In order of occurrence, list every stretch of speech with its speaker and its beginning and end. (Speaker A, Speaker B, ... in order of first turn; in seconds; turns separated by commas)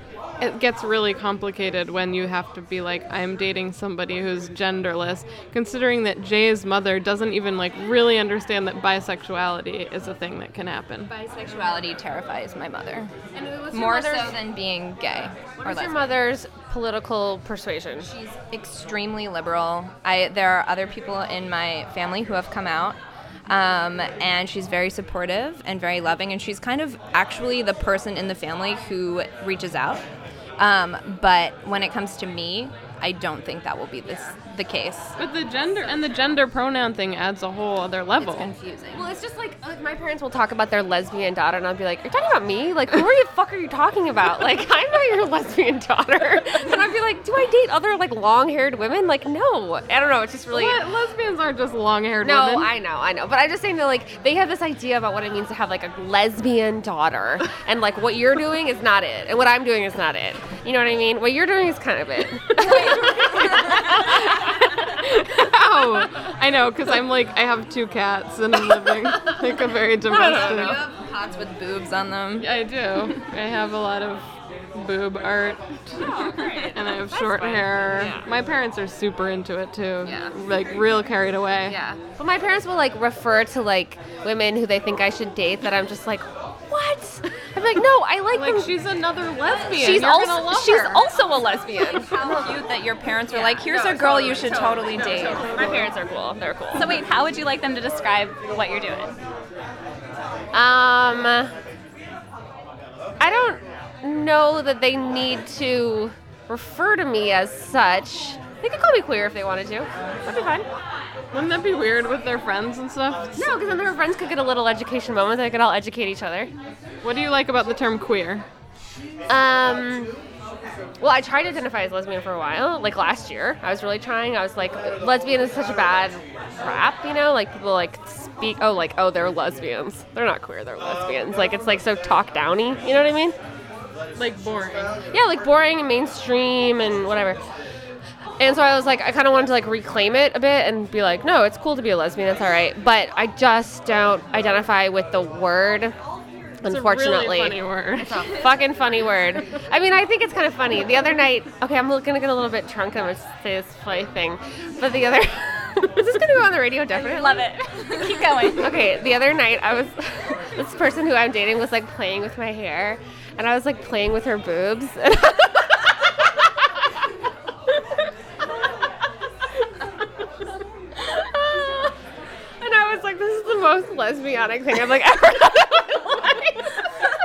Speaker A: 0.4-11.1, Speaker B: 11.1-13.1, Speaker C: 13.3-14.4, Speaker B: 13.7-16.1, Speaker C: 15.6-18.1, Speaker B: 18.0-30.1, Speaker B: 30.6-35.2, Speaker A: 35.2-38.5, Speaker C: 35.8-36.1, Speaker B: 38.2-39.1, Speaker C: 38.9-50.9, Speaker A: 50.5-52.7, Speaker C: 52.2-64.9, Speaker A: 62.6-62.9, Speaker A: 63.9-70.8, Speaker C: 70.0-70.9, Speaker B: 70.1-72.5, Speaker A: 72.4-81.8, Speaker C: 76.0-78.3, Speaker C: 80.0-80.3, Speaker C: 81.6-88.8, Speaker A: 88.3-91.1, Speaker C: 89.5-92.6, Speaker B: 91.9-95.6, Speaker C: 93.3-97.0, Speaker A: 95.2-95.9, Speaker D: 96.7-99.2, Speaker C: 100.5-101.5, Speaker C: 103.2-109.9, Speaker A: 110.2-110.7, Speaker A: 111.3-113.5, Speaker C: 113.4-116.5, Speaker A: 117.0-118.5, Speaker C: 119.3-120.1, Speaker C: 121.0-133.4, Speaker A: 134.2-135.0, Speaker C: 135.1-137.4, Speaker C: 138.4-145.9, Speaker C: 146.6-157.5, Speaker A: 146.7-148.4, Speaker D: 156.9-158.9, Speaker C: 158.5-165.9, Speaker C: 171.0-171.9, Speaker C: 172.6-176.7